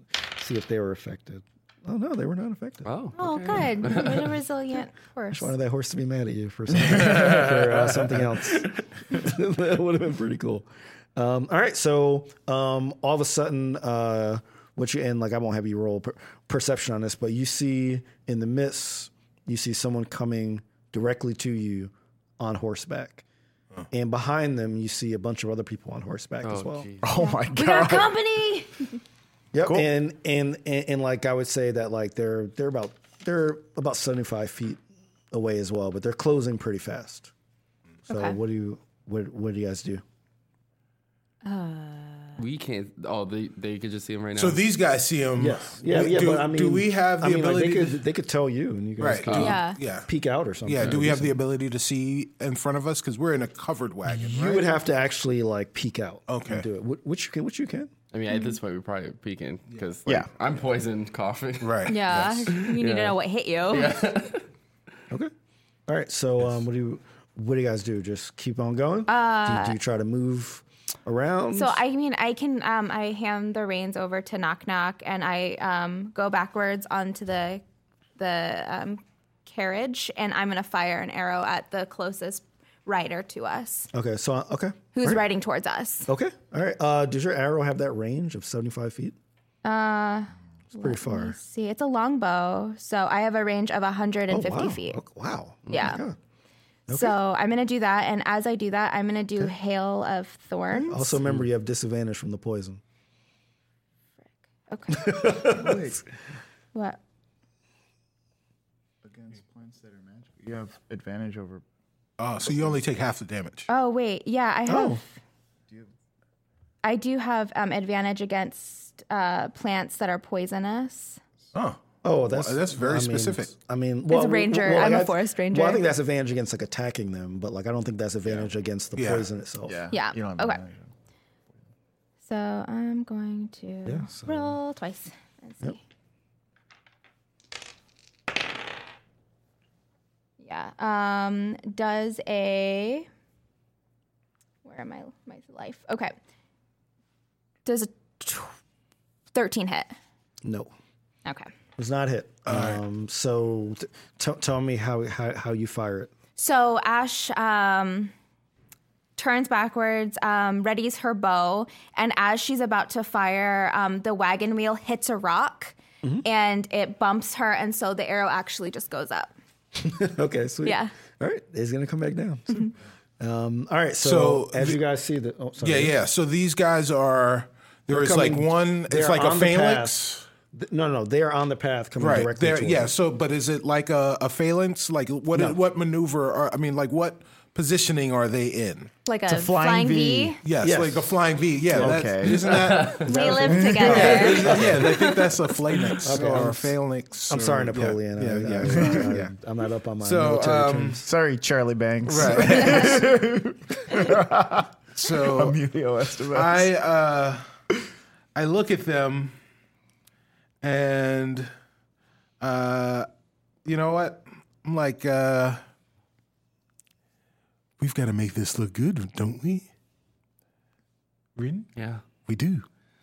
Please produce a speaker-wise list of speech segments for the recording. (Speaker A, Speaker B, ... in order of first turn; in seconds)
Speaker A: 0.3-2.9, 5.3-23.2, 23.9-26.9, 29.5-34.8, 35.3-37.3, 38.1-40.0, 45.4-51.4, 54.1-57.9, 65.9-71.8, 83.9-85.2, 86.1-89.2, 90.7-91.4, 94.3-96.2, 96.9-97.2, 100.7-102.8, 104.9-105.8, 114.7-115.0, 122.0-129.8, 133.9-134.6, 150.4-150.7, 151.8-156.1, 169.8-175.9, 177.9-182.9, 190.6-191.2, 193.0-194.5, 196.0-196.7, 197.3-201.1
Speaker B: 2.8-4.3, 26.4-27.2, 42.4-44.6, 49.2-49.6, 58.1-61.9, 62.5-63.2, 63.7-64.4, 95.7-96.0, 192.5-193.1, 221.8-222.0
Speaker C: 3.2-5.5, 27.2-29.0, 38.1-38.4, 41.4-42.4, 49.3-49.8, 58.3-58.6, 61.9-64.0, 69.1-69.8, 71.5-77.6, 78.2-83.9, 84.9-86.1, 89.6-95.0, 95.7-96.0, 96.9-101.2, 104.7-105.5, 113.7-115.0, 116.8-121.2, 124.1-125.8, 129.9-130.6, 132.3-135.8, 140.4-143.1, 144.6-146.2, 147.7-148.6, 149.3-149.9, 156.4-158.1, 159.2-169.3, 170.7-170.9, 189.1-190.4, 193.0-195.8, 202.6-203.0
Speaker D: 27.0-28.1, 105.3-106.0, 109.0-111.6, 112.5-112.7, 129.7-130.8, 189.3-190.4, 191.7-194.8, 198.7-199.1, 201.1-206.7
Speaker E: 44.4-48.0, 49.0-50.1, 50.7-54.7, 56.3-56.6, 61.6-62.5, 112.2-113.7, 121.5-123.5, 129.0-129.3, 152.5-152.8, 174.0-174.8, 175.6-180.2, 182.0-188.9, 190.4-199.3, 200.0-201.0, 202.1-203.0, 204.9-205.6, 206.3-207.4, 208.3-209.4, 210.6-211.5, 212.4-213.1, 213.7-215.6, 217.8-219.7, 221.4-221.7, 222.3-222.7